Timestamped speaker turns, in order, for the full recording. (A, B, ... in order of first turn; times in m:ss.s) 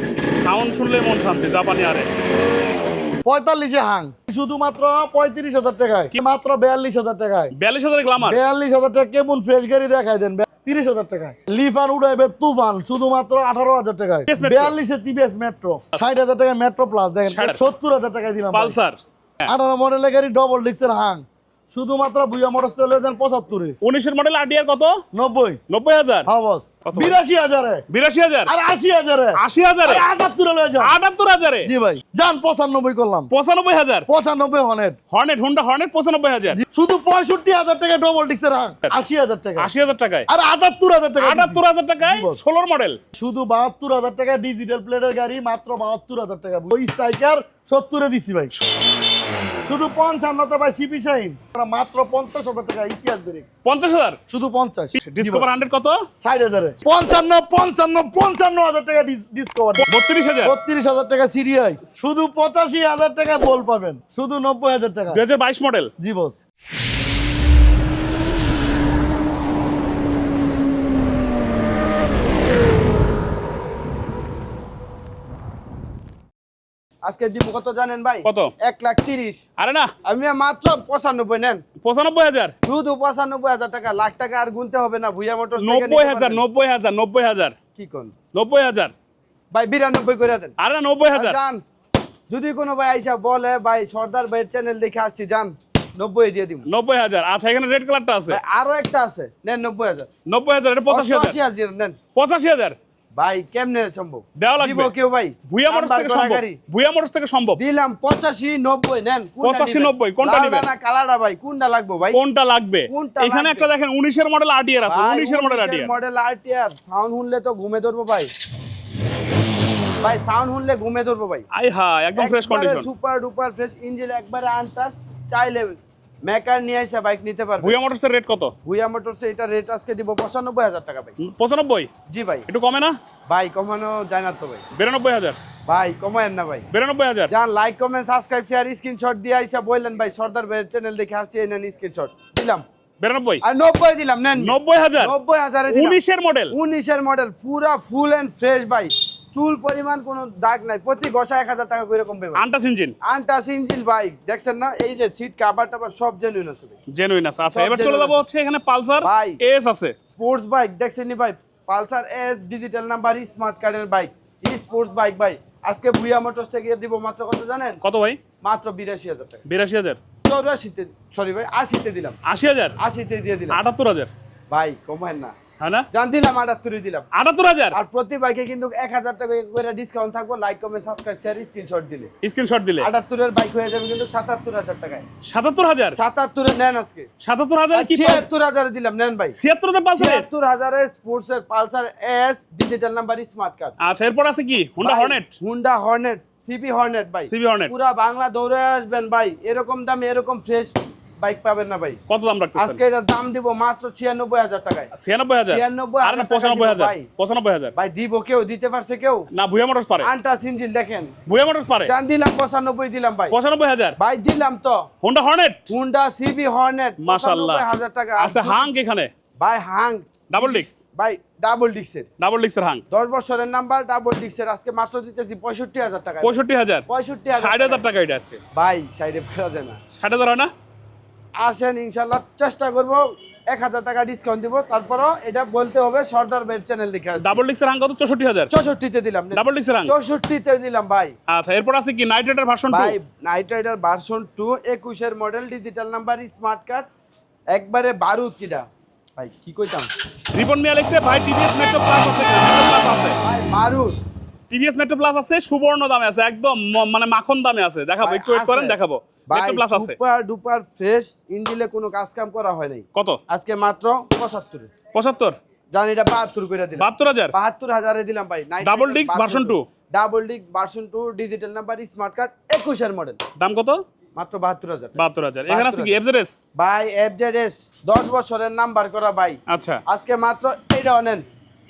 0:00.4-0:02.1 A
0:03.2-0:07.5 B
0:07.5-0:08.4 A
0:08.2-0:18.8 B
0:14.3-0:14.8 A
0:17.2-0:17.6 A
0:18.5-0:19.5 A
0:19.5-0:23.8 B
0:23.8-0:25.0 A
0:25.1-0:25.6 B
0:25.7-0:26.3 A
0:26.3-0:27.8 B
0:26.9-0:27.2 A
0:27.9-0:28.5 A
0:28.5-0:30.9 B
0:29.4-0:30.0 A
0:30.8-0:31.7 A
0:31.6-0:33.3 B
0:33.3-0:34.0 A
0:34.1-0:35.0 B
0:35.1-0:36.6 A
0:36.5-0:39.7 B
0:39.6-0:40.3 A
0:40.3-0:42.4 B
0:41.2-0:43.0 A
0:43.1-0:48.5 B
0:49.7-0:53.5 B
0:53.6-0:54.2 A
0:54.3-0:55.5 B
0:55.0-0:56.0 A
0:56.2-0:59.9 B
0:59.8-1:00.6 A
1:00.4-1:05.2 B
1:05.1-1:05.9 A
1:06.0-1:06.4 B
1:17.0-1:19.4 C
1:18.2-1:18.5 A
1:19.6-1:19.9 A
1:20.0-1:21.6 C
1:21.8-1:22.5 A
1:22.6-1:26.4 C
1:25.6-1:27.6 A
1:27.7-1:28.1 C
1:28.3-1:28.9 A
1:29.5-1:30.6 C
1:30.6-1:31.4 A
1:31.1-1:31.6 C
1:32.3-1:36.7 C
1:36.7-1:38.4 A
1:38.3-1:40.1 C
1:40.3-1:41.4 A
1:40.9-1:42.0 C
1:42.1-1:42.8 A
1:43.1-1:46.6 C
1:44.4-1:44.9 A
1:45.5-1:47.6 A
1:47.6-1:52.2 C
1:49.4-1:50.7 A
1:52.1-1:55.9 A
1:52.9-1:53.7 C
1:54.9-1:58.3 C
2:00.0-2:01.5 C
2:01.5-2:02.9 A
2:02.1-2:07.8 C
2:07.6-2:08.5 A
2:08.6-2:11.2 C
2:11.2-2:11.9 A
2:12.1-2:12.5 C
2:12.5-2:13.0 A
2:13.3-2:14.6 C
2:14.7-2:15.4 A
2:15.7-2:16.7 C
2:16.7-2:17.3 A
2:17.3-2:22.6 C
2:23.0-2:23.4 A
2:23.4-2:26.0 C
2:24.4-2:25.1 A
2:25.7-2:26.6 A
2:26.5-2:32.4 C
2:32.3-2:33.0 A
2:33.0-2:36.8 C
2:36.9-2:39.9 A
2:37.5-2:38.2 C
2:39.0-2:39.4 C
2:40.1-2:47.8 C
2:47.8-2:48.2 A
2:48.4-2:49.4 C
2:49.5-2:50.0 A
2:50.2-2:52.2 C
2:52.2-2:52.8 A
2:52.8-2:53.6 C
2:53.5-2:54.1 A
2:54.5-2:55.3 C
2:55.6-2:55.9 A
2:55.9-2:57.1 C
2:57.2-2:57.8 A
2:57.7-3:02.1 C
3:02.2-3:02.9 A
3:02.8-3:05.0 C
3:05.2-3:06.0 A
3:06.0-3:07.1 C
3:07.2-3:08.2 A
3:07.7-3:09.4 C
3:09.4-3:10.3 A
3:09.9-3:13.8 C
3:13.8-3:15.3 A
3:14.8-3:22.0 C
3:17.2-3:17.7 A
3:22.1-3:22.8 A
3:22.6-3:24.9 C
3:25.0-3:27.7 A
3:25.5-3:27.1 C
3:27.8-3:29.3 C
3:29.3-3:30.1 A
3:30.0-3:31.2 C
3:31.3-3:31.9 A
3:31.8-3:33.4 C
3:33.3-3:34.0 A
3:34.0-3:34.9 C
3:35.0-3:35.6 A
3:35.7-3:38.7 C
3:37.0-3:37.6 A
3:38.2-3:39.1 A
3:39.4-3:42.1 C
3:40.3-3:40.8 A
3:42.2-3:42.8 A
3:42.9-3:47.8 C
3:46.2-3:46.9 A
3:47.4-3:48.4 A
3:48.5-3:49.8 C
3:49.9-3:50.5 A
3:51.4-3:57.4 C
3:57.2-3:58.5 A
3:58.5-4:01.1 C
3:59.3-3:59.9 A
4:01.3-4:02.9 A
4:02.7-4:06.9 C
4:07.5-4:09.9 C
4:10.3-4:13.2 A
4:13.2-4:14.0 C
4:14.5-4:19.9 A
4:18.0-4:18.8 C
4:19.3-4:24.7 C
4:24.9-4:25.4 A
4:25.7-4:33.2 C
4:26.8-4:27.3 A
4:28.6-4:29.6 A
4:33.4-4:33.8 A
4:34.1-4:36.0 C
4:35.0-4:36.4 A
4:36.6-4:41.2 C
4:39.5-4:39.8 A